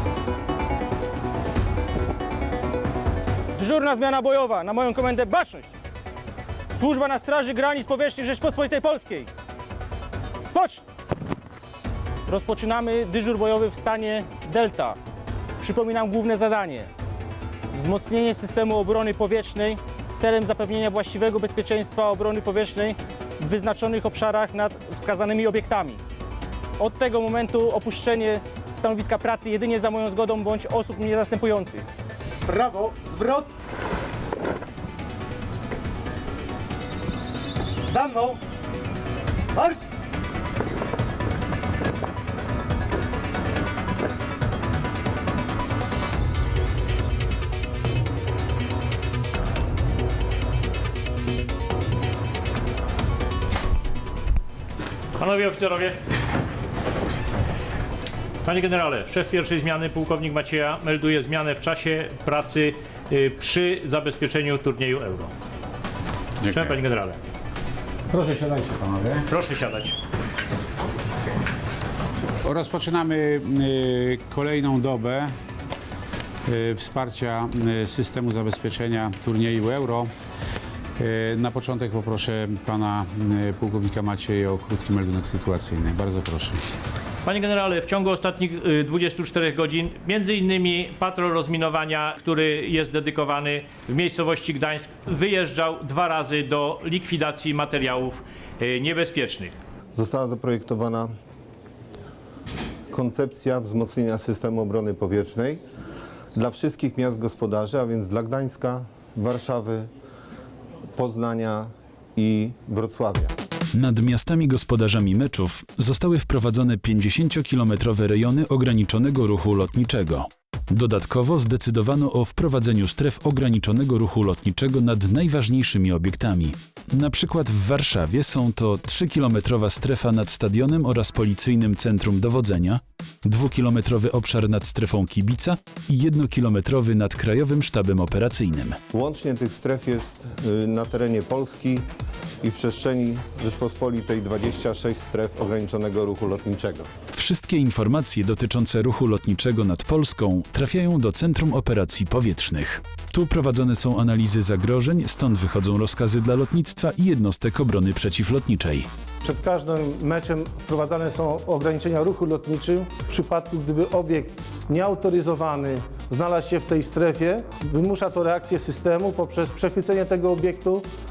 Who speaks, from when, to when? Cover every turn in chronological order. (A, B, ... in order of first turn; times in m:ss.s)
0:03.6-0:05.7 A
0:06.7-0:09.3 A
0:10.4-0:10.8 A
0:12.3-0:15.0 A
0:15.6-0:16.9 A
0:17.7-0:26.0 A
0:26.8-0:31.8 A
0:32.5-0:33.4 A
0:37.9-0:38.4 A
0:39.6-0:39.8 A
0:55.2-0:56.0 B
0:58.4-1:05.3 B
1:06.5-1:07.2 B
1:08.1-1:09.3 C
1:09.3-1:09.9 B
1:12.4-1:15.3 C
1:16.5-1:20.1 C
1:21.0-1:26.6 C
1:27.2-1:39.5 B
1:40.0-1:41.1 D
1:42.9-1:45.6 D
1:46.4-1:49.9 D
1:51.0-1:53.3 D
1:53.7-2:18.8 E
2:18.9-2:21.9 D
2:22.4-2:26.9 D
2:27.1-2:38.9 E
2:39.2-2:50.9 F